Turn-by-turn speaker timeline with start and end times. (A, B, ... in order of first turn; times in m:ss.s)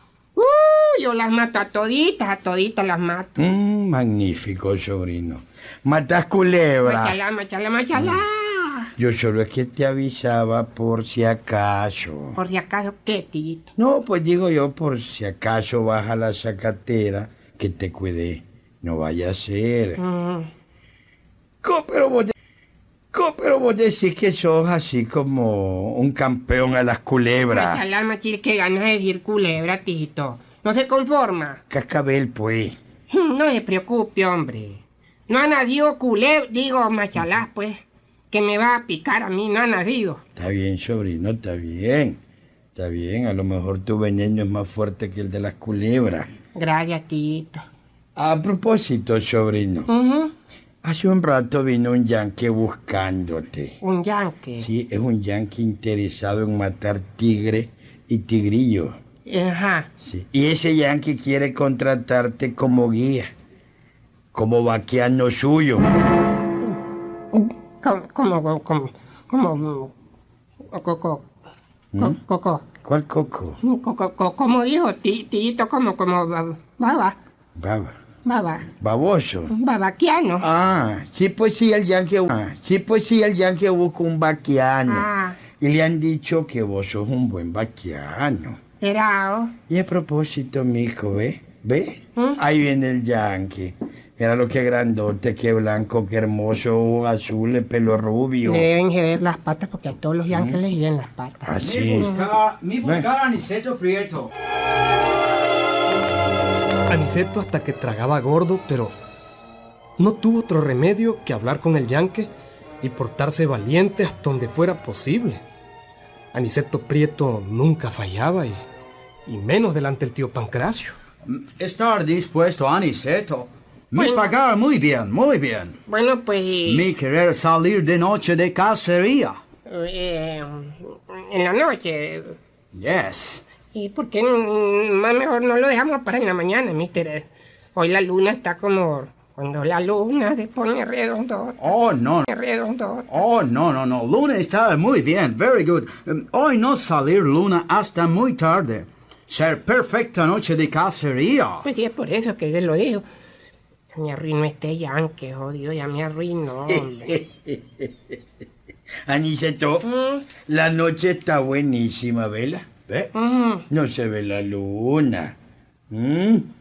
0:00.4-0:03.4 A
0:03.4-0:07.2 B
0:06.8-0:08.9 A
0:07.9-0:08.2 B
0:09.0-0:12.4 B
0:12.3-0:13.7 A
0:13.8-0:20.0 B
0:20.0-0:20.5 A
0:21.6-0:22.3 B
0:23.1-0:27.8 B
0:27.5-0:31.6 A
0:31.7-0:32.8 B
0:33.1-0:40.2 A
0:40.4-0:42.2 B
0:42.7-0:46.3 B
0:46.5-0:47.6 A
0:48.2-0:49.9 B
0:49.9-0:50.3 A
0:50.8-0:53.8 B
0:53.8-0:54.7 A
0:54.6-0:59.0 B
0:59.2-0:59.9 A
1:00.0-1:03.3 B
1:04.3-1:05.9 B
1:07.3-1:09.9 A
1:10.7-1:11.2 A
1:12.0-1:12.6 A
1:12.8-1:13.6 B
1:13.6-1:17.2 A
1:17.6-1:18.0 B
1:18.2-1:18.7 A
1:18.8-1:19.5 B
1:19.5-1:20.4 A
1:20.4-1:25.1 B
1:24.9-1:25.4 A
1:25.6-1:28.6 B
1:28.8-1:29.5 A
1:29.7-1:38.7 B
1:38.4-1:42.3 A
1:40.3-1:40.6 B
1:41.4-1:42.1 B
1:41.6-1:44.3 C
1:46.9-1:48.9 D
1:50.0-1:52.3 D
1:52.8-1:55.4 D
1:56.3-1:58.6 D
1:59.3-2:01.0 D
2:01.2-2:05.8 C
2:03.9-2:04.3 A
2:05.8-2:06.9 A
2:06.6-2:09.4 C
2:09.6-2:12.4 A
2:12.7-2:13.4 C
2:13.7-2:21.7 A
2:21.6-2:22.3 C
2:22.2-2:23.2 A
2:23.1-2:31.6 C
2:31.6-2:33.0 A
2:33.9-2:37.2 A
2:36.7-2:38.2 B
2:39.1-2:39.8 B
2:39.8-2:40.2 A
2:40.5-2:43.1 B
2:43.1-2:43.6 A
2:43.7-2:45.4 B
2:45.9-2:46.5 B